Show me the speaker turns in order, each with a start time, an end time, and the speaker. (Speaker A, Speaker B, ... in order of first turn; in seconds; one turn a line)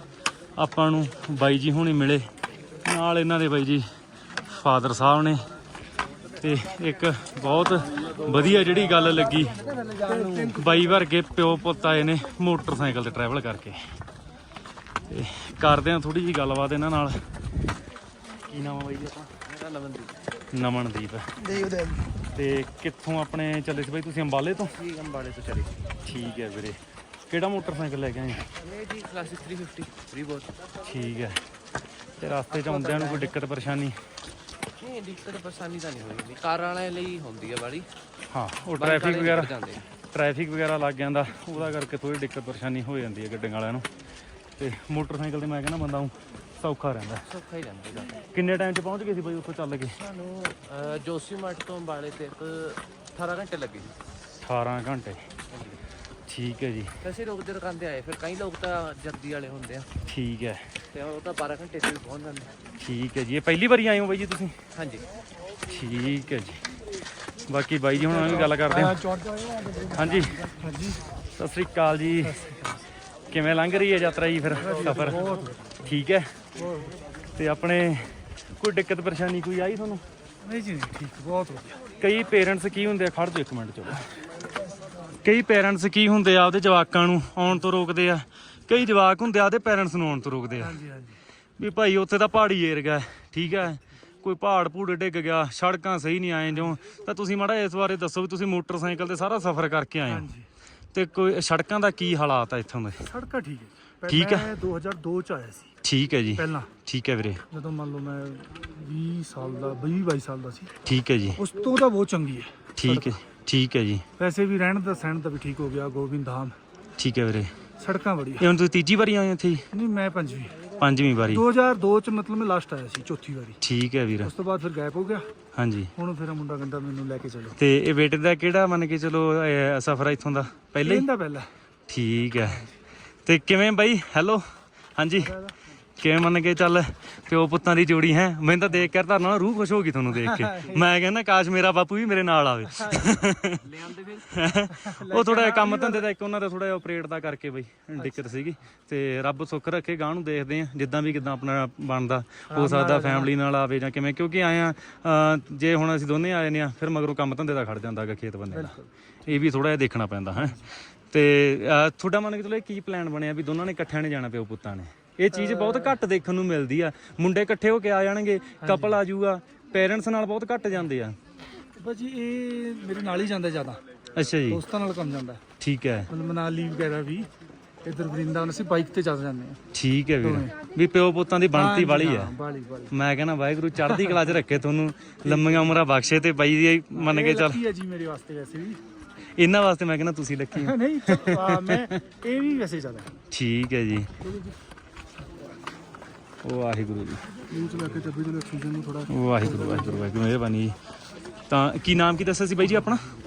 Speaker A: 0.6-2.2
Speaker A: 2.8-3.9
Speaker A: 4.5-5.4
Speaker A: 6.4-9.6
Speaker A: 10.2-13.8
Speaker A: 15.1-17.2
Speaker A: 18.5-19.3
Speaker B: 19.4-20.2
Speaker A: 20.5-21.3
Speaker A: 22.3-24.8
Speaker B: 24.8-25.8
Speaker A: 26.1-28.5
Speaker B: 28.6-30.5
Speaker A: 30.8-31.4
Speaker A: 32.2-34.0
Speaker B: 32.5-33.3
Speaker B: 34.8-37.9
Speaker A: 38.3-39.5
Speaker B: 38.8-39.8
Speaker A: 40.1-43.9
Speaker A: 44.6-47.2
Speaker B: 47.2-48.2
Speaker A: 48.3-50.0
Speaker B: 50.0-53.9
Speaker A: 54.4-55.2
Speaker B: 55.5-55.8
Speaker A: 56.3-56.9
Speaker B: 57.0-59.9
Speaker A: 60.1-60.7
Speaker B: 60.9-62.5
Speaker A: 62.8-64.6
Speaker B: 64.7-65.0
Speaker A: 65.7-66.6
Speaker A: 67.5-69.0
Speaker C: 67.9-71.0
Speaker A: 69.9-70.5
Speaker A: 71.4-72.4
Speaker C: 72.2-72.9
Speaker A: 73.3-75.2
Speaker C: 74.6-75.7
Speaker A: 75.8-76.3
Speaker C: 76.6-76.9
Speaker A: 77.4-80.0
Speaker C: 80.4-81.8
Speaker A: 82.0-84.0
Speaker A: 85.2-90.8
Speaker C: 90.6-91.2
Speaker A: 91.6-100.3
Speaker C: 100.1-100.5
Speaker A: 100.9-103.1
Speaker C: 103.0-105.7
Speaker A: 104.1-104.5
Speaker A: 105.8-107.4
Speaker C: 106.3-106.7
Speaker C: 107.5-110.7
Speaker A: 110.8-111.4
Speaker C: 111.4-113.2
Speaker A: 112.8-114.1
Speaker C: 114.2-116.6
Speaker A: 117.0-117.5
Speaker C: 117.8-118.5
Speaker A: 118.4-119.6
Speaker C: 119.7-120.6
Speaker A: 120.8-121.5
Speaker C: 121.3-123.6
Speaker A: 123.6-124.3
Speaker C: 124.2-125.2
Speaker A: 125.5-125.9
Speaker C: 126.0-127.6
Speaker A: 127.6-131.1
Speaker C: 130.8-131.5
Speaker A: 131.9-132.7
Speaker A: 133.2-134.4
Speaker A: 135.0-135.4
Speaker A: 136.0-143.7
Speaker C: 140.2-140.8
Speaker B: 143.7-144.1
Speaker A: 144.2-158.8
Speaker C: 144.8-146.0
Speaker C: 152.5-153.3
Speaker C: 158.5-158.9
Speaker A: 159.2-171.2
Speaker C: 165.3-165.9
Speaker C: 168.6-169.0
Speaker C: 171.8-173.8
Speaker A: 174.2-174.6
Speaker C: 174.5-175.4
Speaker A: 175.6-176.1
Speaker C: 176.1-177.3
Speaker C: 177.8-179.6
Speaker A: 179.7-182.3
Speaker C: 180.2-180.5
Speaker C: 181.5-182.9
Speaker A: 182.9-187.6
Speaker C: 183.8-184.2
Speaker C: 185.2-185.7
Speaker C: 186.9-188.8
Speaker A: 189.4-191.9
Speaker C: 190.5-193.1
Speaker A: 193.3-194.1
Speaker C: 194.2-194.5
Speaker A: 196.4-197.2
Speaker C: 197.5-200.0
Speaker A: 199.1-200.8
Speaker A: 201.5-203.1